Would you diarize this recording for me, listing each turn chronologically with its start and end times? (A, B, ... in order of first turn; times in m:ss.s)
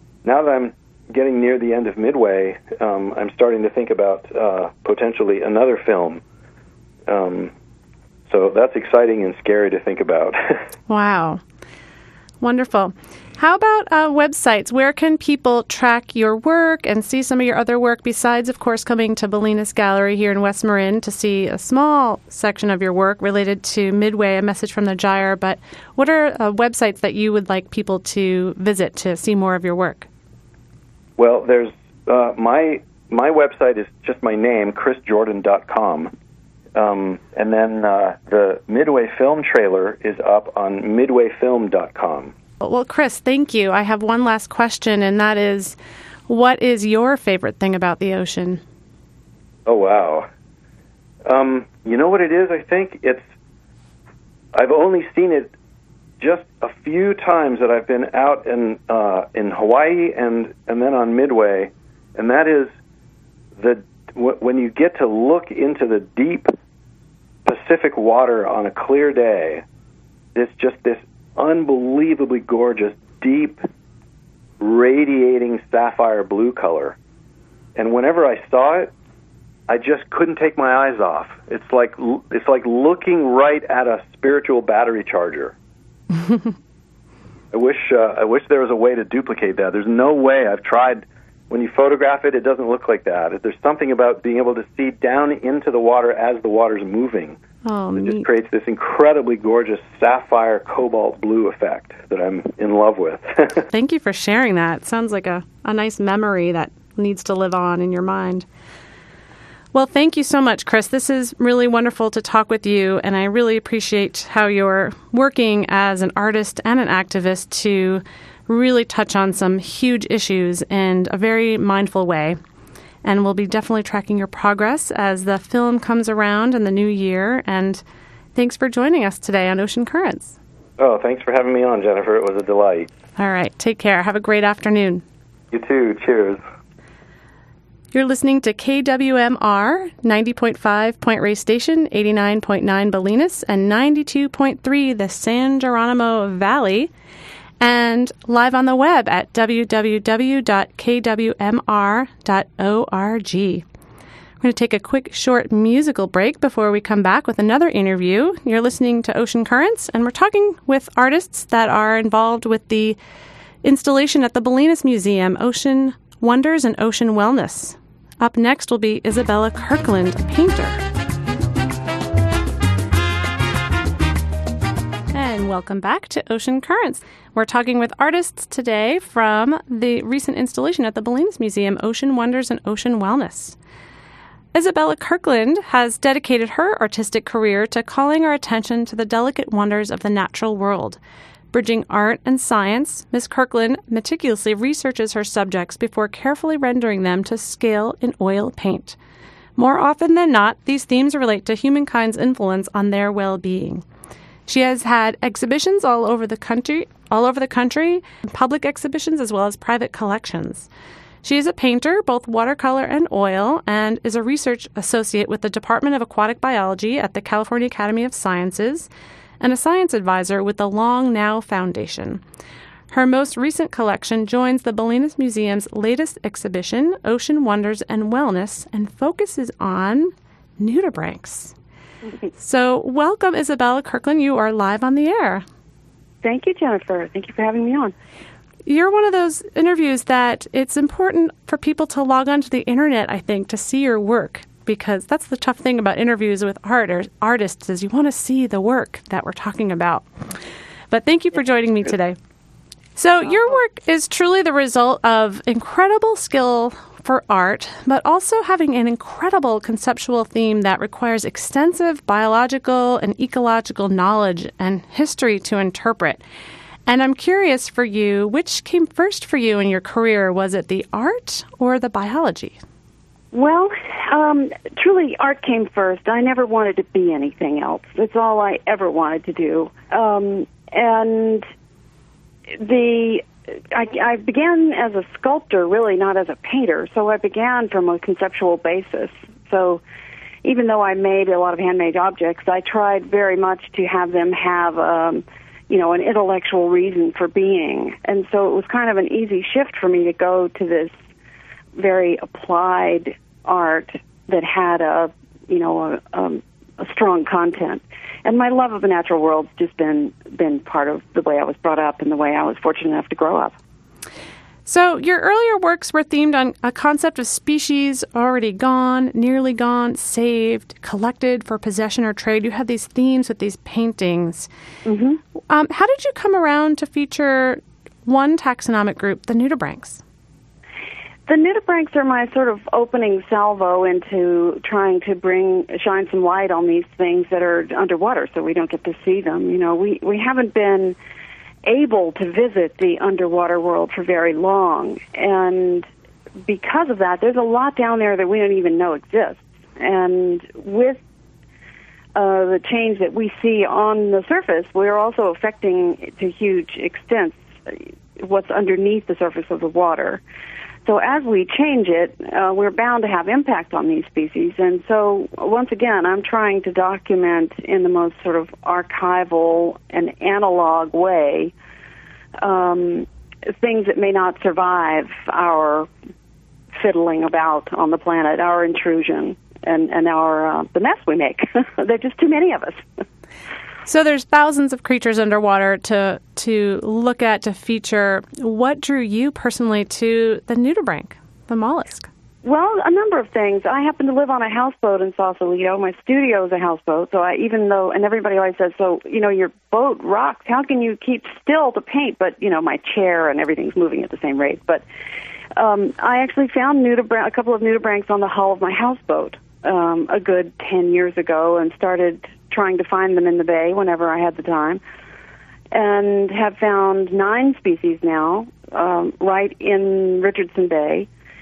0:00.2-0:06.2 A
0:07.1-0:07.5 A
0:08.3-0:10.6 A
0:10.9-0:11.4 B
0:12.4-0:30.1 B
0:31.2-0:36.1 A
0:36.7-0:42.3 A
0:42.6-0:45.8 B
0:46.3-0:48.6 B
0:49.7-0:50.3 A
0:51.2-0:53.2 A
0:54.5-0:55.5 A
0:56.2-1:02.7 A
1:03.6-1:06.5 A
1:07.4-1:09.6 A
1:10.4-1:13.6 A
1:14.6-1:17.0 A
1:17.8-1:18.9 A
1:19.7-1:25.5 A
1:27.5-1:37.4 A
1:37.6-1:38.3 B
1:38.0-1:43.7 A
1:43.7-1:48.5 B
1:49.7-2:02.4 B
2:03.0-2:07.8 B
2:08.4-2:10.4 B
2:10.8-2:12.9 A
2:13.2-2:15.0 B
2:15.5-2:16.4 A
2:17.9-2:26.9 B
2:27.6-2:33.6 B
2:34.4-2:43.0 B
2:43.6-2:50.8 B
2:55.1-3:03.6 B
3:04.5-3:11.0 B
3:11.5-3:19.0 B
3:19.6-3:23.8 B
3:24.5-3:30.7 B
3:31.2-3:38.9 B
3:39.4-3:42.2 B
3:42.9-3:51.5 B
3:52.4-3:55.4 B
3:56.2-3:57.9 C
3:58.6-4:10.1 B
4:10.9-4:12.2 B
4:13.0-4:26.2 B
4:26.9-4:32.6 B
4:33.3-4:41.5 C
4:42.6-4:49.8 C
4:50.4-5:00.9 C
5:01.8-5:13.6 C
5:14.7-5:24.5 B
5:24.8-5:25.2 C
5:25.5-5:30.0 B
5:31.3-5:41.0 C
5:41.6-5:45.9 C
5:46.5-5:51.0 C
5:52.2-6:00.2 C
6:00.8-6:11.5 C
6:12.4-6:15.9 C
6:16.8-6:22.8 C
6:23.9-6:32.1 B
6:32.4-6:44.8 C
6:45.6-6:54.8 C
6:55.7-7:01.1 C